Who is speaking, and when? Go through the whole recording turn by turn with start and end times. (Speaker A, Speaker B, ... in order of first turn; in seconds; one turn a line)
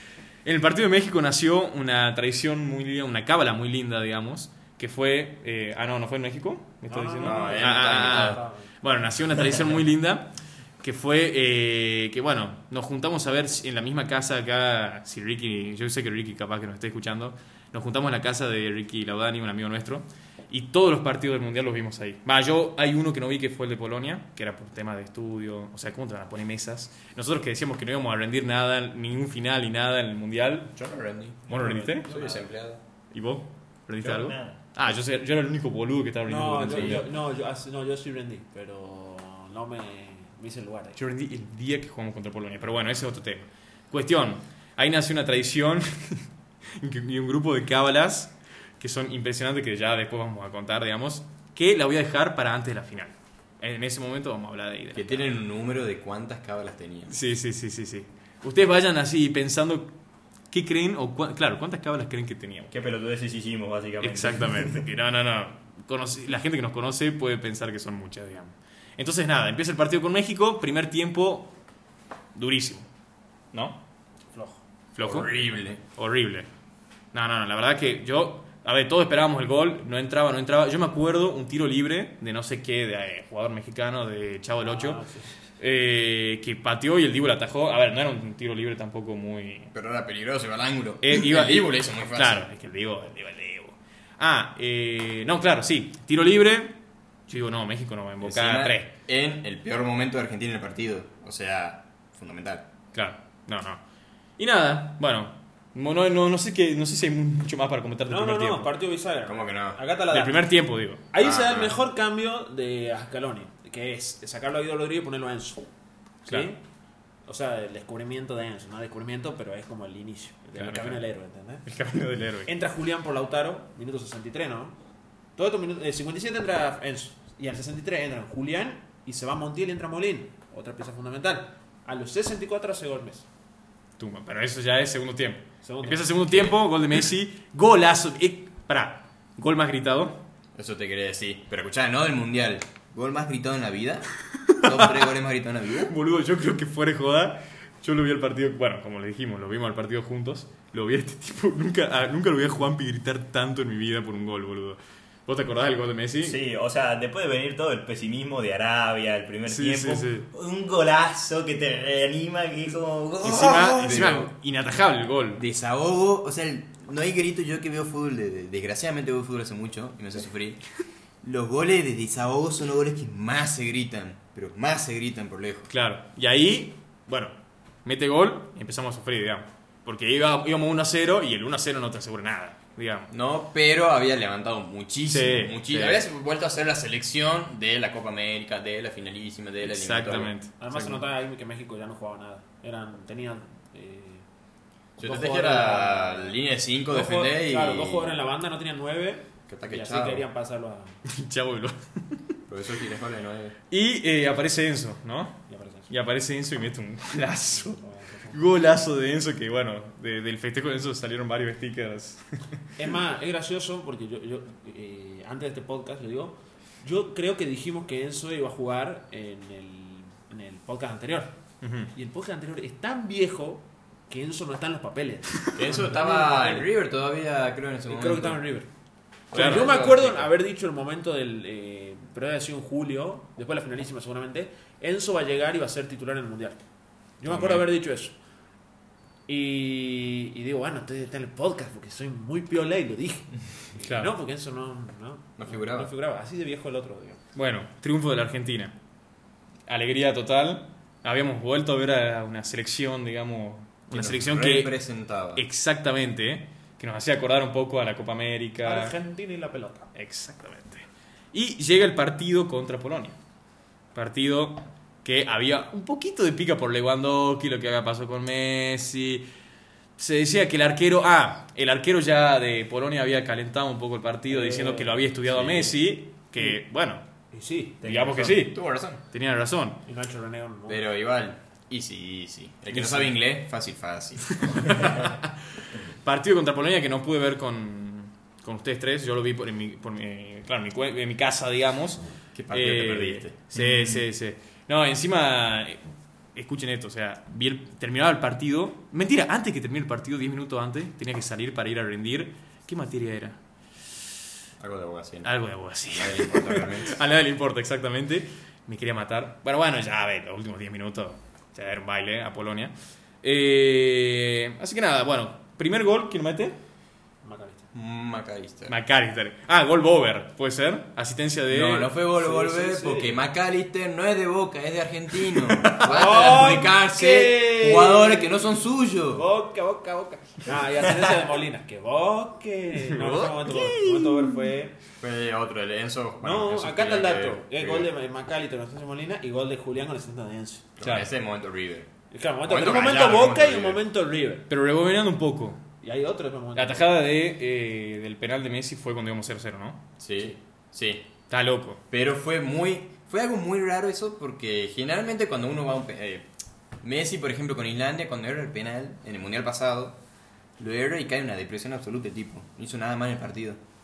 Speaker A: 0.5-30.7
Speaker B: 6.9-8.7
Speaker C: 7.2-8.4
Speaker C: 30.7-32.8
Speaker A: 31.5-32.1
Speaker B: 31.5-32.5
Speaker A: 33.1-37.1
Speaker D: 34.0-34.6
Speaker B: 36.3-41.0
Speaker C: 36.7-37.0
Speaker A: 41.0-55.3
Speaker C: 55.0-57.1
Speaker A: 57.1-59.9
Speaker A: 60.5-62.7
Speaker D: 62.7-64.8
Speaker A: 64.0-71.5
Speaker A: 72.3-72.9
Speaker A: 73.5-73.8
Speaker B: 74.3-74.6
Speaker A: 75.0-76.5
Speaker C: 75.0-75.8
Speaker A: 77.1-85.0
Speaker B: 84.6-85.3
Speaker A: 85.6-89.7
Speaker C: 89.7-92.5
Speaker A: 91.0-96.8
Speaker A: 97.3-98.9
Speaker C: 98.2-102.7
Speaker A: 102.9-103.8
Speaker A: 104.4-108.7
Speaker B: 108.1-110.5
Speaker C: 109.3-109.8
Speaker A: 110.1-111.1
Speaker B: 111.0-115.7
Speaker C: 111.2-111.8
Speaker B: 116.2-116.6
Speaker A: 116.3-116.5
Speaker B: 117.3-121.7
Speaker A: 120.6-121.0
Speaker A: 121.7-122.5
Speaker B: 122.5-124.8
Speaker B: 125.4-133.3
Speaker A: 134.0-140.2
Speaker B: 135.6-136.2
Speaker C: 136.3-136.6
Speaker C: 140.6-145.9
Speaker A: 144.5-144.9
Speaker A: 145.8-156.4
Speaker D: 156.2-164.0
Speaker A: 159.5-160.3
Speaker A: 163.2-165.4
Speaker C: 163.4-164.3
Speaker C: 165.4-170.6
Speaker C: 171.2-175.7
Speaker A: 175.7-183.1
Speaker C: 183.1-190.3
Speaker A: 185.1-186.1
Speaker A: 189.6-191.0
Speaker B: 190.6-194.2
Speaker B: 195.0-196.4
Speaker C: 195.0-198.2
Speaker B: 196.9-201.0
Speaker C: 199.5-200.3
Speaker A: 201.1-202.2
Speaker C: 202.5-203.6
Speaker A: 203.7-212.6
Speaker B: 205.5-205.9
Speaker B: 207.6-208.4
Speaker B: 212.8-221.3
Speaker A: 221.6-221.9
Speaker B: 221.9-226.7
Speaker C: 225.6-228.4
Speaker B: 227.9-228.7
Speaker C: 229.3-230.3
Speaker B: 229.3-236.6
Speaker A: 229.3-229.7
Speaker B: 237.2-238.2
Speaker A: 237.3-237.7
Speaker B: 239.3-247.2
Speaker A: 243.8-244.1
Speaker C: 245.4-245.9
Speaker A: 247.3-248.8
Speaker A: 249.7-254.7
Speaker C: 253.9-255.4
Speaker A: 255.3-258.9
Speaker B: 258.6-259.9
Speaker A: 259.9-263.2
Speaker A: 263.9-269.3
Speaker A: 270.0-277.1
Speaker B: 274.3-275.1
Speaker C: 275.3-275.8
Speaker B: 277.3-277.8
Speaker D: 277.8-278.4
Speaker A: 277.8-279.8
Speaker C: 278.1-279.0
Speaker B: 279.9-280.8
Speaker C: 280.7-285.1
Speaker A: 282.7-283.2
Speaker A: 284.4-295.8
Speaker C: 292.3-293.4
Speaker A: 296.4-303.4
Speaker C: 304.6-305.3
Speaker A: 305.2-316.6
Speaker C: 305.9-307.0
Speaker B: 317.2-317.7
Speaker C: 317.7-318.8
Speaker A: 318.7-321.9
Speaker C: 321.5-329.3
Speaker B: 322.1-323.2
Speaker A: 325.5-325.9
Speaker B: 325.8-334.8
Speaker A: 332.9-334.4
Speaker C: 335.0-337.9
Speaker B: 336.2-340.7
Speaker C: 340.8-341.9
Speaker A: 340.8-341.1
Speaker B: 342.1-344.5
Speaker C: 342.5-343.8
Speaker A: 344.5-345.6
Speaker B: 345.8-347.0
Speaker A: 346.6-349.8
Speaker C: 350.0-351.1
Speaker A: 351.3-351.8
Speaker C: 351.9-356.3
Speaker C: 356.8-360.0
Speaker C: 360.6-363.6